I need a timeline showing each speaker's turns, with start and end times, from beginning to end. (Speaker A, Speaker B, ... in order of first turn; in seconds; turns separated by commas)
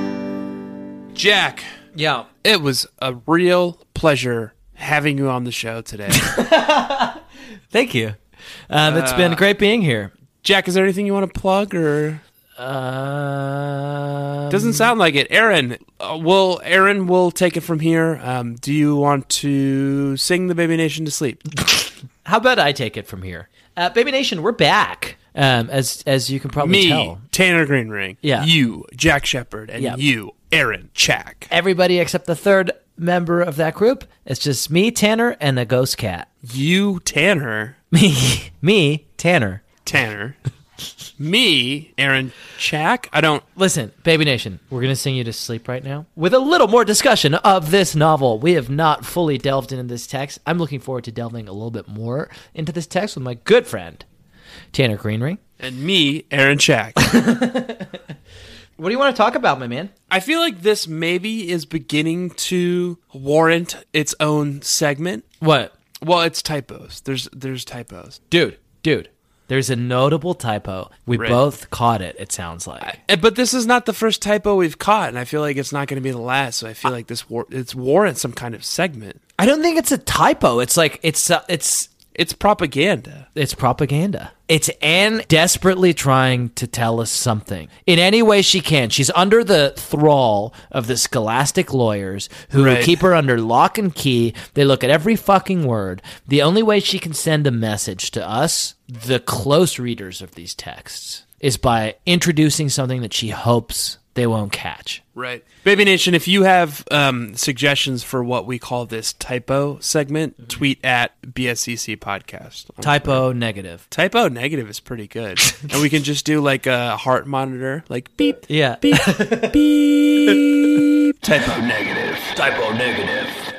Speaker A: 1.1-1.7, Speaker B: 1.9-2.3, Speaker A: 2.4-6.3, Speaker B: 6.1-7.2, Speaker B: 7.7-8.2, Speaker B: 8.7-10.1, Speaker A: 8.8-9.4, Speaker A: 10.4-12.2, Speaker B: 12.6-14.9, Speaker A: 14.5-21.4, Speaker B: 21.7-27.2, Speaker A: 26.6-31.5, Speaker B: 28.2-28.5, Speaker B: 31.5-36.3, Speaker A: 36.4-37.8, Speaker B: 37.9-39.6, Speaker A: 39.9-40.4, Speaker A: 41.2-43.4, Speaker B: 43.6-54.0, Speaker B: 54.7-55.4, Speaker A: 55.6-57.0, Speaker B: 57.0-58.0, Speaker B: 58.8-59.9, Speaker A: 60.1-65.3, Speaker B: 65.4-65.7, Speaker A: 66.0-68.2, Speaker B: 68.3-73.0, Speaker A: 72.8-79.2, Speaker B: 79.4-81.9, Speaker A: 82.2-83.3, Speaker B: 83.3-105.0, Speaker A: 92.5-93.0, Speaker A: 105.2-113.2, Speaker B: 112.8-113.8, Speaker A: 113.9-122.4, Speaker B: 118.5-119.6, Speaker B: 120.2-120.8, Speaker B: 122.4-123.4